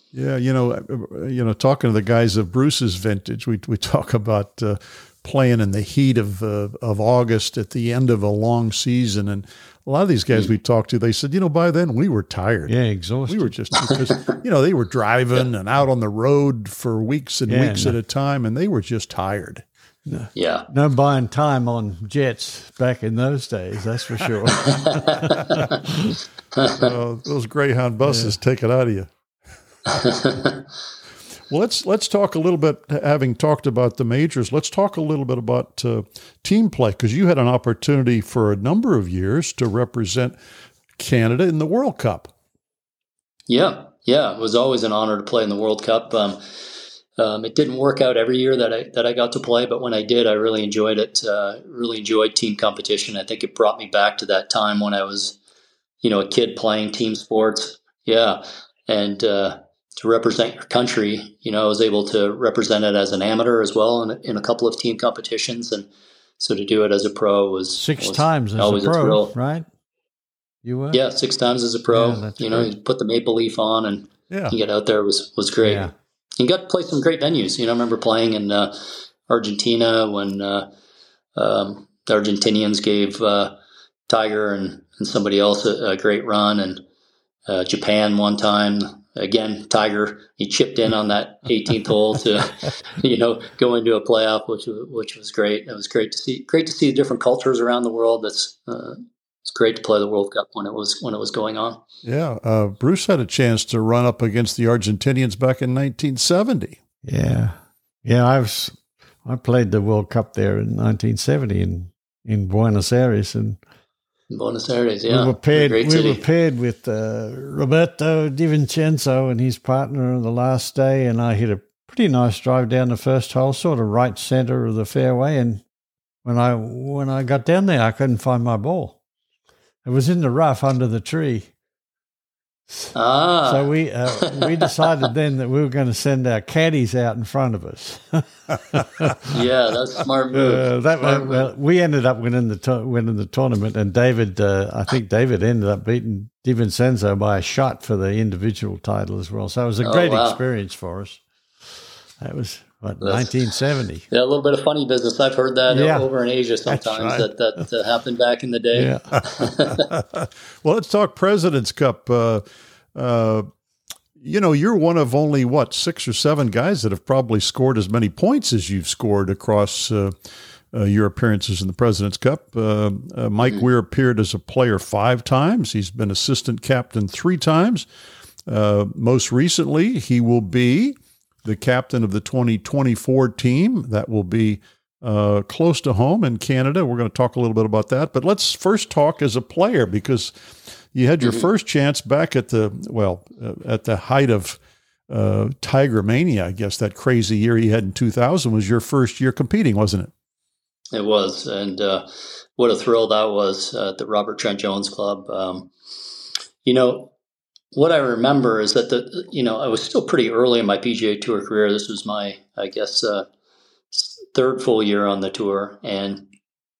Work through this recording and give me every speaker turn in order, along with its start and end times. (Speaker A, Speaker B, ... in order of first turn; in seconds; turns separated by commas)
Speaker A: 0.1-19.6, Speaker B: 12.7-13.5, Speaker C: 13.9-14.4, Speaker B: 17.5-17.9, Speaker B: 20.1-26.2, Speaker C: 20.3-20.7, Speaker C: 24.6-25.7, Speaker C: 26.5-26.9, Speaker A: 26.7-29.1, Speaker B: 28.0-28.3, Speaker C: 29.9-30.6, Speaker A: 31.5-40.4, Speaker A: 41.0-42.3, Speaker C: 43.5-46.4, Speaker C: 47.2-55.4, Speaker C: 56.0-69.3, Speaker B: 67.7-69.7, Speaker B: 70.6-71.0, Speaker C: 70.9-80.7, Speaker B: 71.9-72.7, Speaker A: 74.3-74.5, Speaker B: 75.6-75.9, Speaker C: 81.3-83.6, Speaker C: 84.1-86.8, Speaker C: 87.5-101.8, Speaker A: 102.0-106.8, Speaker B: 107.0-113.6, Speaker C: 114.3-116.2, Speaker B: 115.0-125.6, Speaker B: 126.2-129.0, Speaker B: 129.8-131.5, Speaker C: 132.9-135.1, Speaker B: 133.4-139.4, Speaker C: 139.3-141.5, Speaker B: 140.3-151.2, Speaker C: 149.8-150.4, Speaker B: 152.2-154.1, Speaker C: 153.0-153.4, Speaker C: 154.1-159.9, Speaker B: 155.7-156.1, Speaker B: 156.7-157.2, Speaker B: 158.7-159.2, Speaker A: 159.9-162.4, Speaker A: 162.9-163.5, Speaker A: 164.2-170.1, Speaker A: 170.7-177.9, Speaker A: 178.5-190.3, Speaker A: 190.9-200.1, Speaker C: 191.2-191.5, Speaker C: 200.9-205.7, Speaker C: 206.6-207.1, Speaker C: 207.7-213.3, Speaker C: 213.9-216.3